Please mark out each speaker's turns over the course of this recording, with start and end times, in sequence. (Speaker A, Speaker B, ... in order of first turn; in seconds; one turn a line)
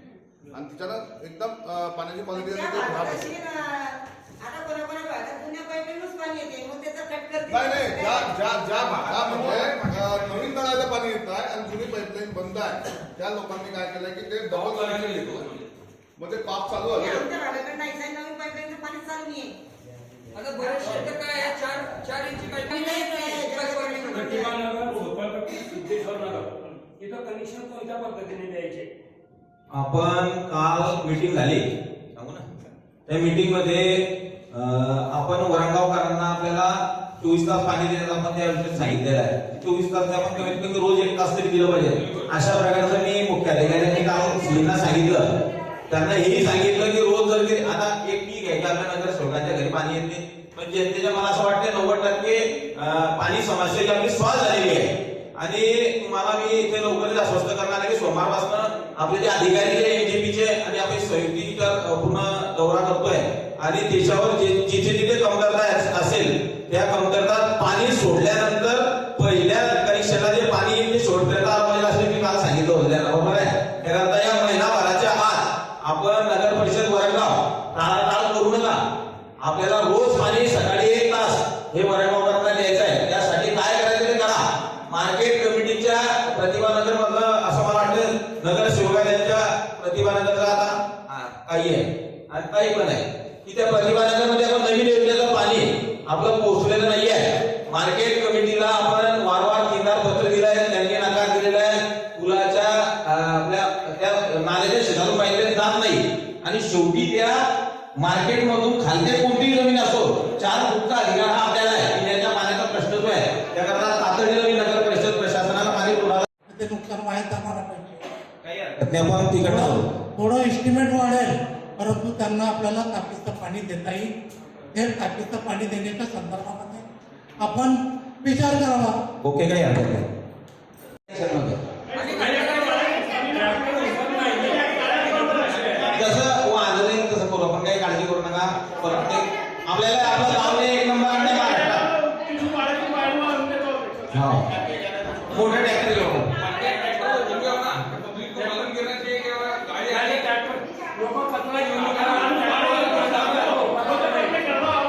Speaker A: 0.5-3.3
Speaker B: 2.3-8.3
Speaker A: 7.5-15.5
Speaker A: 16.2-17.3
Speaker B: 16.9-19.5
Speaker C: 20.4-24.1
Speaker B: 20.6-21.5
Speaker D: 20.8-21.1
Speaker B: 22.6-24.5
Speaker D: 24.1-28.9
Speaker E: 29.7-31.6
Speaker E: 32.1-32.5
Speaker E: 33.1-45.3
Speaker E: 45.9-78.8
Speaker E: 79.4-107.4
Speaker E: 108.0-116.2
Speaker F: 116.5-118.0
Speaker E: 118.4-119.8
Speaker F: 119.4-124.1
Speaker F: 124.7-126.8
Speaker F: 127.4-129.0
Speaker E: 129.2-130.1
Speaker E: 131.1-131.6
Speaker C: 131.9-133.2
Speaker D: 132.1-135.9
Speaker E: 135.9-141.9
Speaker C: 142.2-143.9
Speaker E: 144.1-144.4
Speaker E: 145.3-146.6
Speaker C: 146.4-149.9
Speaker D: 148.4-148.7
Speaker D: 149.8-154.6